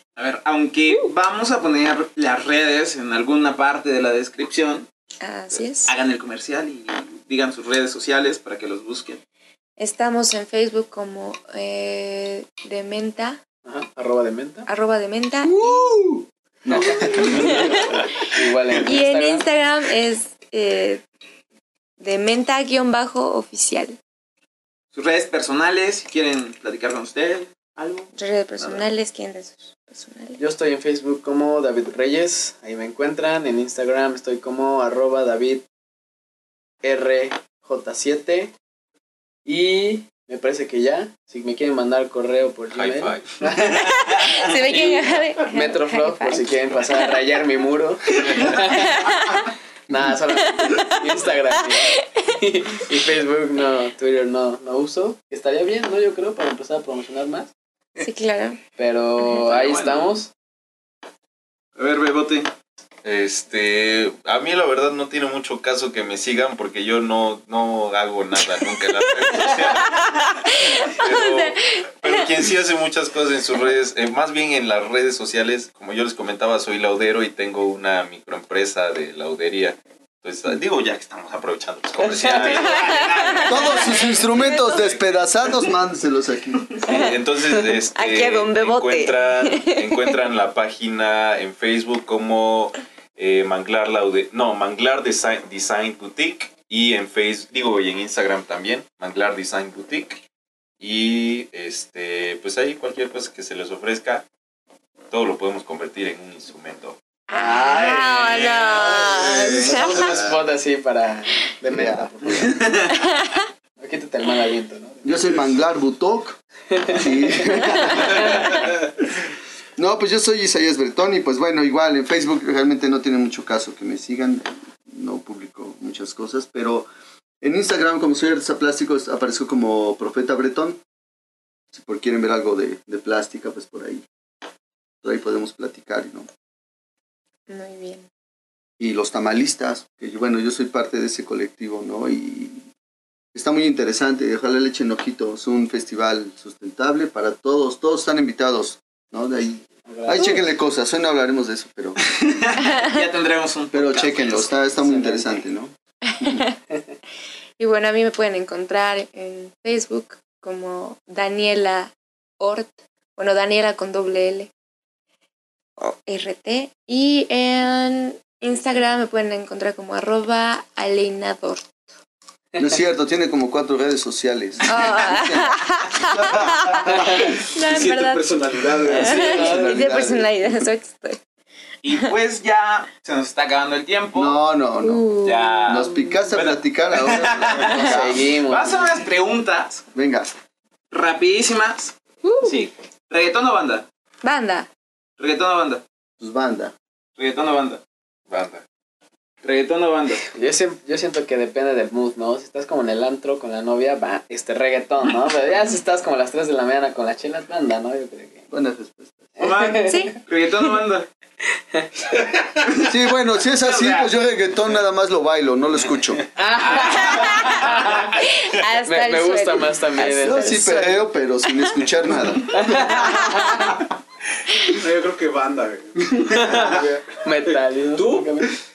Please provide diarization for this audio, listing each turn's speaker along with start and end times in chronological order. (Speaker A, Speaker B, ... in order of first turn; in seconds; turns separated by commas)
Speaker A: 0.2-4.9, Speaker B: 5.2-5.9, Speaker A: 5.8-9.2, Speaker B: 9.8-13.4, Speaker C: 13.7-14.7, Speaker B: 14.7-15.8, Speaker D: 15.4-18.1, Speaker B: 16.8-18.1, Speaker C: 17.2-17.6, Speaker C: 18.3-19.5, Speaker B: 18.8-21.0, Speaker B: 22.0-24.0, Speaker A: 24.9-28.1, Speaker B: 28.2-30.4, Speaker C: 30.4-35.6, Speaker C: 36.8-38.5, Speaker C: 39.5-43.9, Speaker E: 42.7-43.6, Speaker B: 43.8-47.1, Speaker C: 44.7-49.1, Speaker B: 48.4-49.5, Speaker C: 49.9-57.5, Speaker B: 50.6-51.0, Speaker B: 58.0-58.6, Speaker C: 58.8-60.3, Speaker A: 59.6-60.1, Speaker A: 61.8-62.5, Speaker E: 63.0-83.1, Speaker B: 69.5-72.5, Speaker C: 82.0-82.6, Speaker A: 82.3-84.2, Speaker B: 82.4-84.8, Speaker D: 83.5-86.7, Speaker E: 86.8-100.2, Speaker B: 86.9-87.2, Speaker B: 88.0-90.2, Speaker E: 100.8-104.3, Speaker E: 105.1-107.0, Speaker B: 107.3-110.2, Speaker C: 107.3-108.4, Speaker A: 108.1-110.3, Speaker C: 109.7-112.7, Speaker D: 111.7-112.6, Speaker A: 112.3-113.0, Speaker B: 112.9-113.4, Speaker C: 113.8-115.1, Speaker D: 115.0-118.7, Speaker C: 116.7-118.6, Speaker B: 117.8-118.4, Speaker D: 119.8-126.9, Speaker D: 127.4-130.8, Speaker D: 131.7-134.0, Speaker D: 135.0-136.3, Speaker B: 137.5-138.1, Speaker D: 138.8-142.7, Speaker D: 143.3-152.0, Speaker C: 149.9-150.4, Speaker A: 152.1-154.5, Speaker B: 152.7-153.0, Speaker D: 153.7-156.4, Speaker C: 154.8-155.4, Speaker B: 156.1-156.6, Speaker B: 157.6-164.5, Speaker B: 165.8-171.8, Speaker D: 172.6-177.3, Speaker B: 174.7-178.3, Speaker F: 177.6-179.5, Speaker B: 178.9-181.2, Speaker D: 178.9-180.7, Speaker C: 179.0-179.8, Speaker A: 181.8-184.4, Speaker D: 184.2-185.1, Speaker B: 184.8-186.3, Speaker A: 185.2-189.8, Speaker D: 185.7-188.2, Speaker C: 187.9-188.9, Speaker D: 189.9-190.3, Speaker A: 190.9-193.9, Speaker B: 192.2-192.6, Speaker B: 194.2-194.7, Speaker A: 195.2-195.8, Speaker D: 196.2-196.7, Speaker A: 197.2-197.8, Speaker E: 198.3-198.6, Speaker A: 199.4-200.3, Speaker C: 200.3-208.5, Speaker D: 208.5-209.3, Speaker C: 209.4-210.1, Speaker A: 209.4-211.1, Speaker B: 209.9-210.2, Speaker A: 212.7-212.9, Speaker D: 212.8-216.3, Speaker A: 213.5-214.1, Speaker C: 216.4-218.2, Speaker A: 216.7-217.5, Speaker B: 216.9-221.8, Speaker C: 218.9-220.8, Speaker D: 220.1-223.1, Speaker C: 222.5-223.8, Speaker B: 222.9-223.8, Speaker F: 224.7-227.0, Speaker C: 226.3-228.5, Speaker F: 227.5-228.3